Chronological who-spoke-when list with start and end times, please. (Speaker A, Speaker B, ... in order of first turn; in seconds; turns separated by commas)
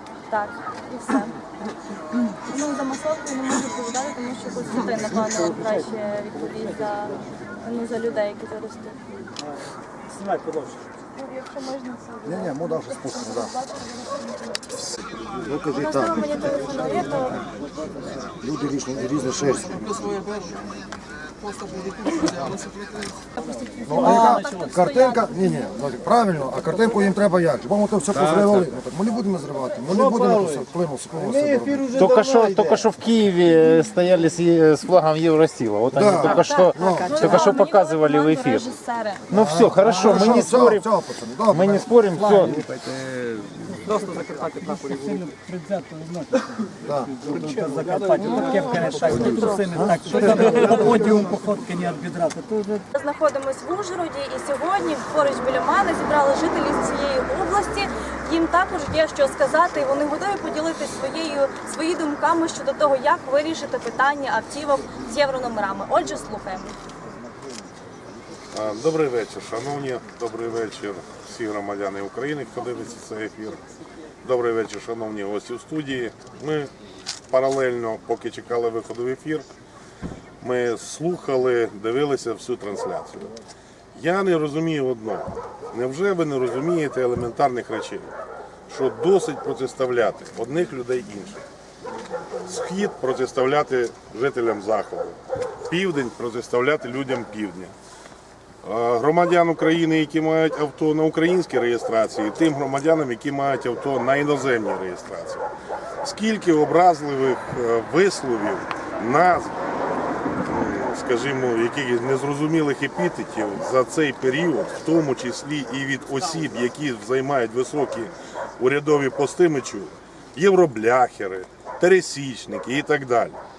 Speaker A: 0.3-1.4, Speaker A: 2.5-9.0, Speaker B: 10.1-10.8, Speaker A: 11.1-14.6, Speaker C: 12.2-13.5, Speaker C: 15.4-16.2, Speaker A: 15.8-17.4, Speaker C: 18.3-20.1, Speaker C: 23.9-32.0, Speaker A: 23.9-25.5, Speaker B: 24.0-24.3, Speaker D: 31.9-38.7, Speaker C: 35.9-37.2, Speaker A: 36.0-39.2, Speaker D: 39.3-40.9, Speaker C: 39.3-41.9, Speaker D: 41.5-42.7, Speaker B: 42.1-42.6, Speaker B: 43.8-46.5, Speaker B: 47.1-52.9, Speaker A: 52.9-66.8, Speaker E: 68.5-73.6, Speaker E: 74.2-76.7, Speaker E: 77.3-79.5, Speaker E: 80.4-83.3, Speaker E: 84.0-88.1, Speaker E: 88.7-91.4, Speaker E: 92.5-95.2, Speaker E: 95.7-97.7, Speaker E: 98.6-105.4, Speaker E: 106.0-109.6, Speaker E: 110.5-123.4